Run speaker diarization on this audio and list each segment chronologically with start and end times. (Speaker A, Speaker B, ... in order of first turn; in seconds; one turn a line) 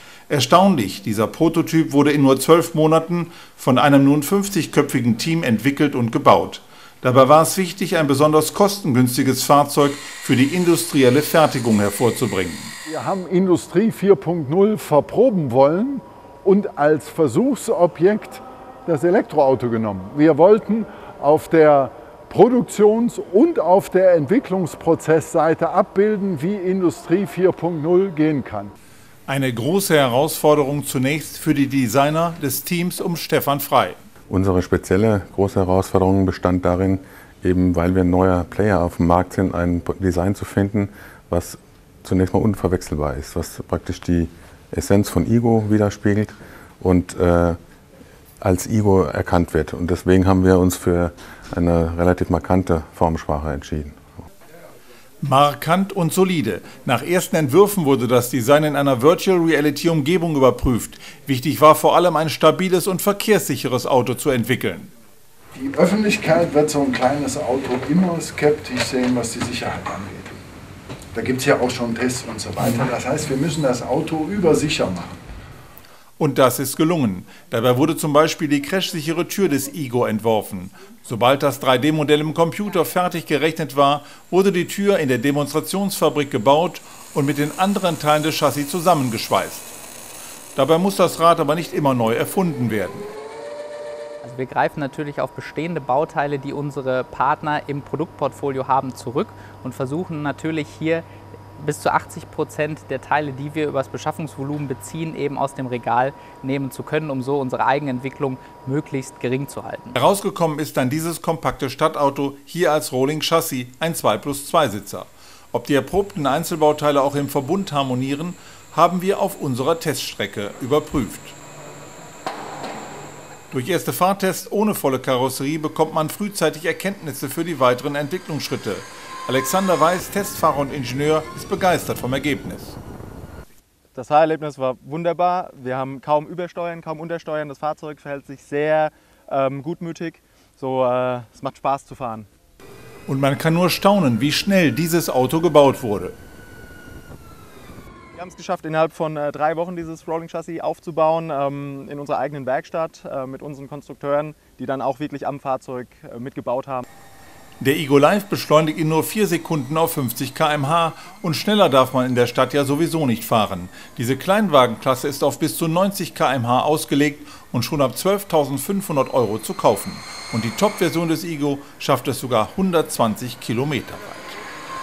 Speaker A: 0.3-12.7
Speaker B: 12.9-28.7
Speaker A: 29.3-34.0
Speaker C: 34.3-47.6
Speaker C: 48.4-54.1
Speaker A: 55.2-64.9
Speaker B: 65.5-70.3
Speaker B: 71.1-75.2
Speaker A: 76.2-89.8
Speaker A: 90.6-93.1
Speaker D: 94.2-110.0
Speaker A: 110.0-121.4
Speaker A: 123.5-132.8
Speaker E: 133.9-142.3
Speaker A: 143.1-146.2
Speaker E: 148.2-156.9
Speaker A: 157.6-174.4